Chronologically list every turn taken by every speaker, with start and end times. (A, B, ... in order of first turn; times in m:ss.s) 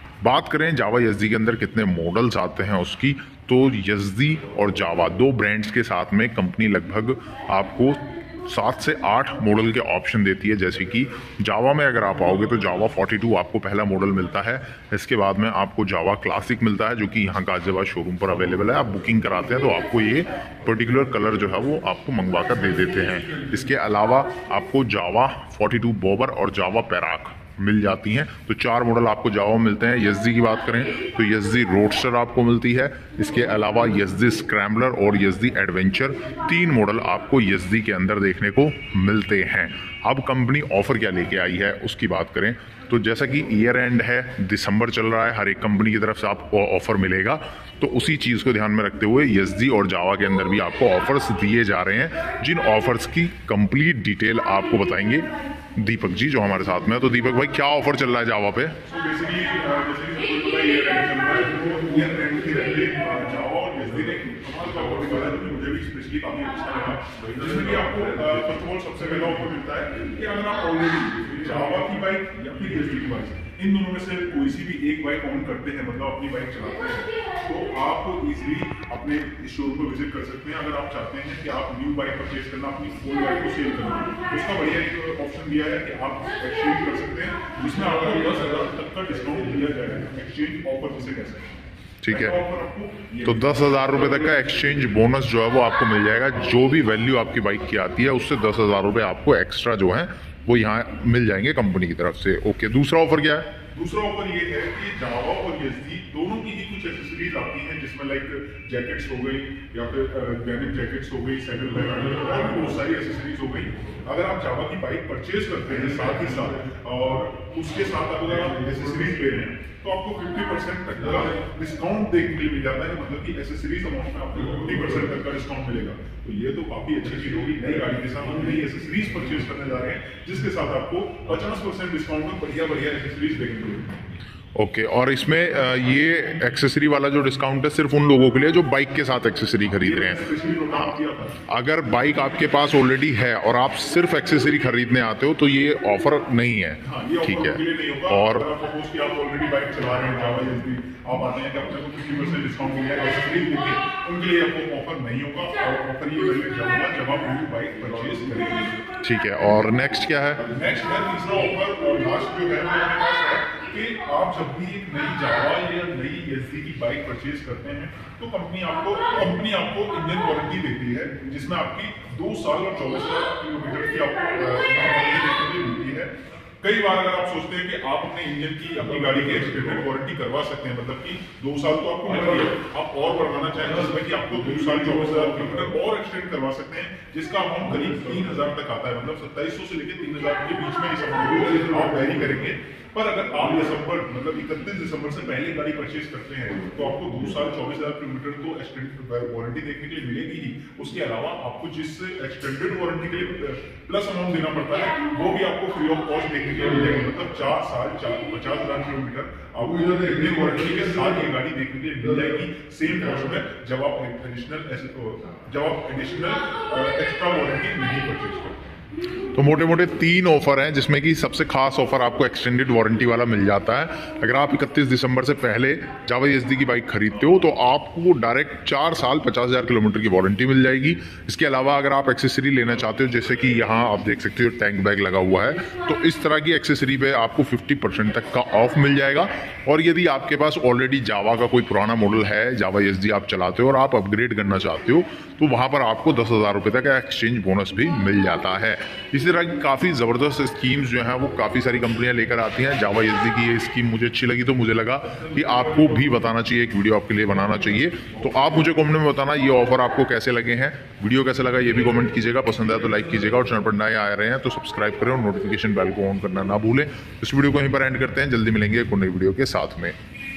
0:00.2-0:58.8 A
0:58.9-1:34.3 B
1:32.0-1:32.3 A
1:33.2-1:43.6 A
1:43.7-2:14.0 B
2:14.6-2:20.2 A
2:19.8-2:21.4 B
2:21.5-2:28.4 A
2:26.8-2:38.8 B
2:39.0-2:40.4 A
2:40.4-3:38.7 B
3:39.3-4:30.0 A